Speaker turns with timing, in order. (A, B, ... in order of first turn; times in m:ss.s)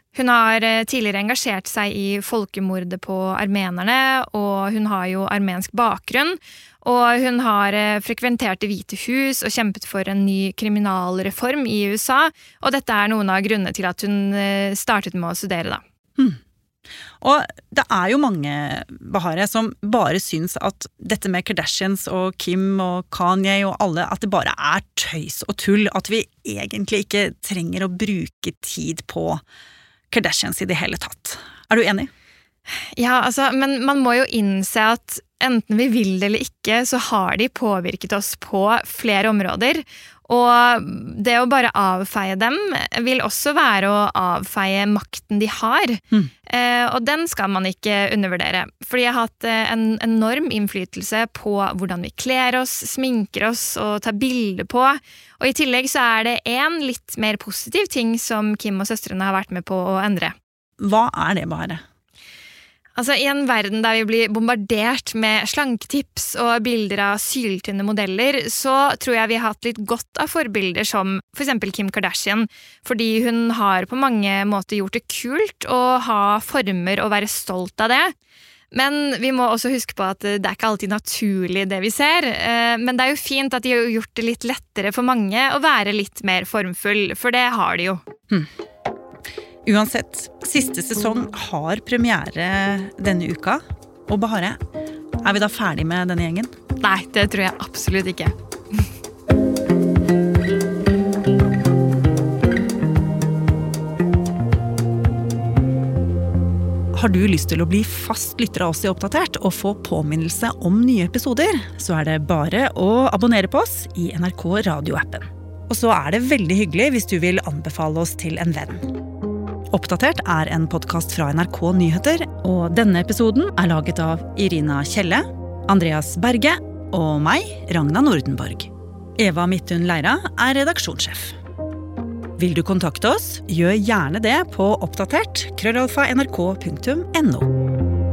0:00.2-0:15.8 A
0:17.2-0:29.4 B
0:30.1-0:32.1 B
0:33.0-1:00.4 A
1:00.8-1:01.8 B
1:03.0-1:18.1 A
1:18.7-1:28.0 A
1:29.6-1:34.6 B
1:35.2-1:36.5 B
1:36.8-1:38.3 A
1:46.9-1:58.8 B
1:59.7-2:11.4 B
2:12.4-2:17.5 B